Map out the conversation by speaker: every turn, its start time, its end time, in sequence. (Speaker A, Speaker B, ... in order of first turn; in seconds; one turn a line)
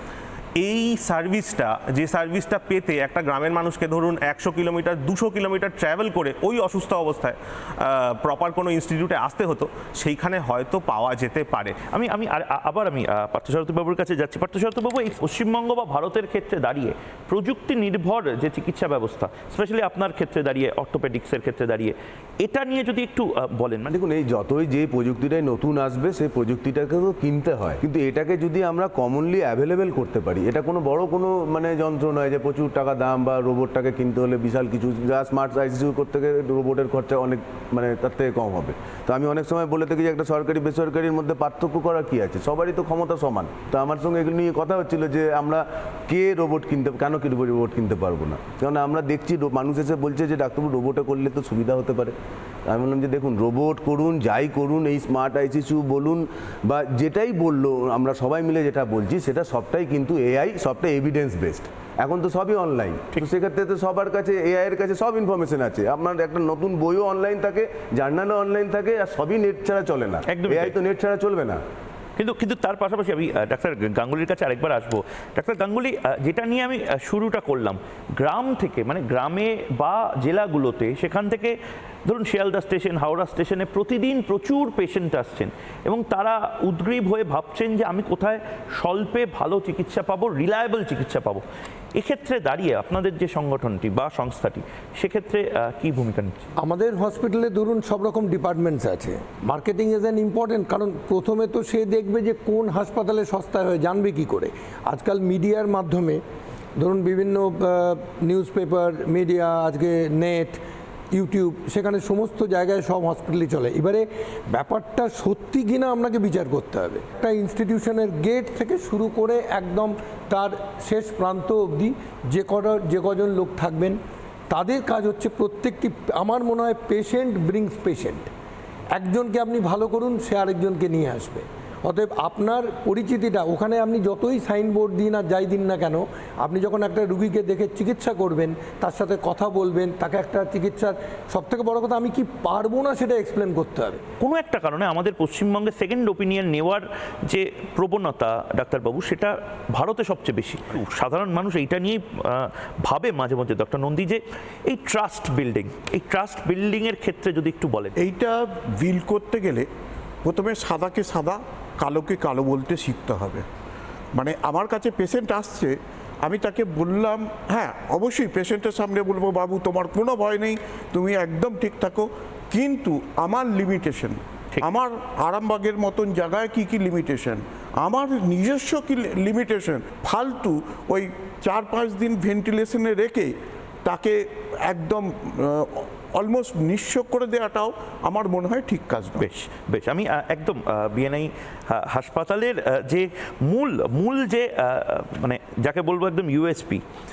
Speaker A: 0.6-11.8
Speaker B: 11.9-23.9
Speaker C: 23.9-52.1
Speaker C: 52.7-71.6
Speaker B: 70.3-70.8
Speaker B: 72.2-81.5
Speaker B: 82.1-91.4
Speaker B: 92.0-96.5
Speaker D: 96.6-106.2
Speaker D: 106.8-110.6
Speaker D: 111.1-124.0
Speaker D: 124.5-128.3
Speaker D: 128.9-144.0
Speaker B: 144.2-157.9
Speaker E: 158.0-159.7
Speaker E: 160.2-163.4
Speaker E: 164.2-183.3
Speaker E: 183.8-189.2
Speaker B: 189.2-196.8